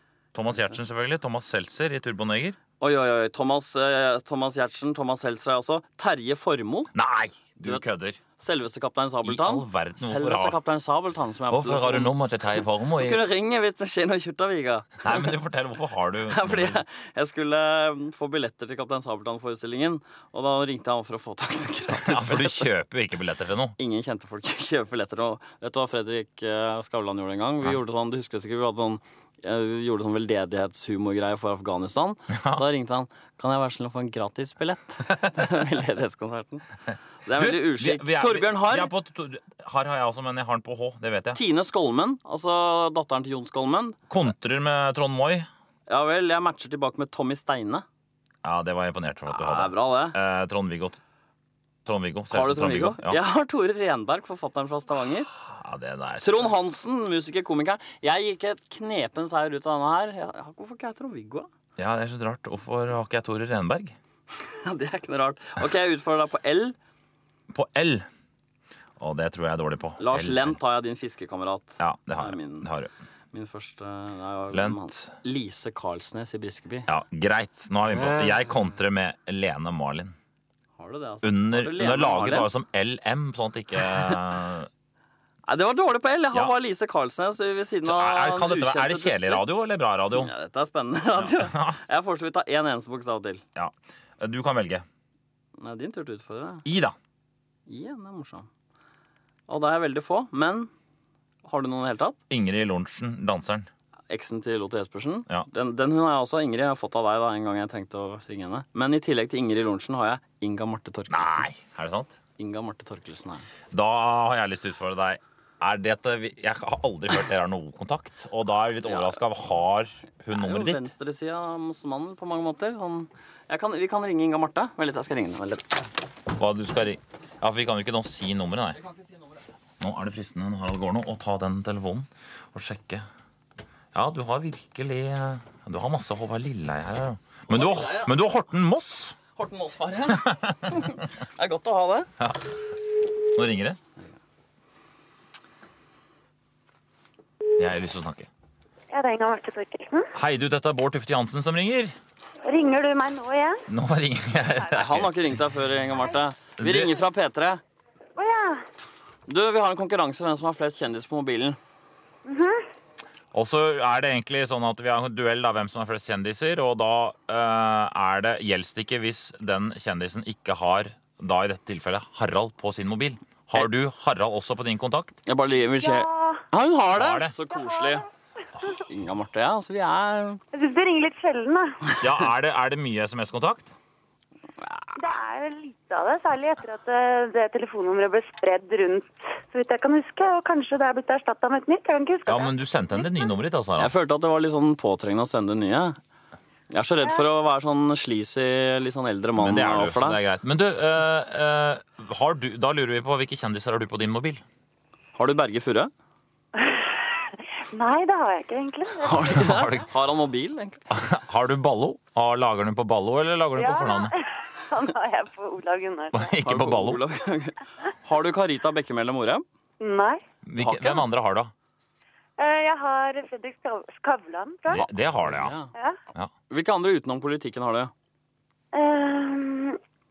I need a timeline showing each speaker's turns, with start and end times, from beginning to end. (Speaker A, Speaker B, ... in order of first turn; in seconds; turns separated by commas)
Speaker A: 0.3-2.6, Speaker B: 2.8-6.9, Speaker A: 6.9-8.2, Speaker B: 7.6-12.1, Speaker A: 9.2-10.6, Speaker A: 11.5-13.2, Speaker B: 13.0-15.3, Speaker A: 15.0-16.8, Speaker B: 16.3-22.7, Speaker A: 21.9-23.8, Speaker B: 23.8-36.6, Speaker A: 32.3-32.6, Speaker B: 37.2-38.9, Speaker A: 37.4-41.4, Speaker B: 41.4-44.0, Speaker A: 44.1-45.5, Speaker B: 45.9-47.9, Speaker A: 48.4-51.0, Speaker B: 49.3-50.2, Speaker A: 51.9-53.2, Speaker B: 52.3-55.3, Speaker A: 55.4-56.5, Speaker B: 56.2-61.5, Speaker A: 61.8-64.0, Speaker B: 64.3-66.8, Speaker A: 67.5-68.1, Speaker A: 69.0-70.6, Speaker B: 70.0-72.7, Speaker A: 71.8-72.9, Speaker B: 73.3-76.9, Speaker A: 74.5-75.1, Speaker A: 76.9-80.1, Speaker B: 80.8-82.5, Speaker A: 81.2-84.7, Speaker B: 85.5-89.4, Speaker A: 87.8-90.3, Speaker B: 90.1-93.4, Speaker A: 91.2-91.8, Speaker A: 93.6-94.9, Speaker B: 95.6-96.6, Speaker A: 96.6-97.0, Speaker B: 97.7-98.5, Speaker B: 99.5-100.7, Speaker B: 101.4-102.2, Speaker A: 102.3-103.7, Speaker B: 104.1-111.5, Speaker A: 111.1-112.2, Speaker B: 112.4-113.5, Speaker A: 113.7-120.9, Speaker B: 120.3-125.8, Speaker A: 126.3-128.8, Speaker A: 129.8-133.1, Speaker A: 133.9-139.2, Speaker B: 137.5-138.1, Speaker B: 139.3-142.1, Speaker A: 140.1-140.9, Speaker A: 142.2-142.6, Speaker A: 143.3-143.8, Speaker A: 147.6-148.3, Speaker C: 148.9-150.1, Speaker A: 150.1-151.9, Speaker C: 152.4-153.6, Speaker A: 153.7-155.2, Speaker B: 154.7-157.6, Speaker A: 156.6-157.0, Speaker C: 158.2-158.6, Speaker B: 159.3-161.6, Speaker C: 162.2-162.7, Speaker A: 163.3-175.2, Speaker B: 175.3-178.1, Speaker C: 175.8-176.4, Speaker A: 176.9-177.3, Speaker C: 177.5-178.0, Speaker B: 178.8-180.4, Speaker C: 180.5-181.9, Speaker A: 182.0-183.7, Speaker B: 184.6-184.9, Speaker C: 185.0-193.3, Speaker A: 192.3-193.9, Speaker B: 193.8-196.0, Speaker B: 196.7-200.2, Speaker A: 199.4-204.4, Speaker B: 205.2-205.9, Speaker C: 206.6-209.6, Speaker A: 209.0-209.9, Speaker B: 209.1-210.8, Speaker A: 210.9-214.1, Speaker C: 213.6-216.4, Speaker A: 216.1-217.0, Speaker B: 216.4-219.4, Speaker C: 219.8-220.2, Speaker A: 220.5-221.5, Speaker B: 220.6-221.1, Speaker C: 222.4-224.9, Speaker A: 224.7-225.6, Speaker B: 224.8-225.7, Speaker C: 225.7-226.0, Speaker B: 226.5-227.9, Speaker C: 228.7-229.8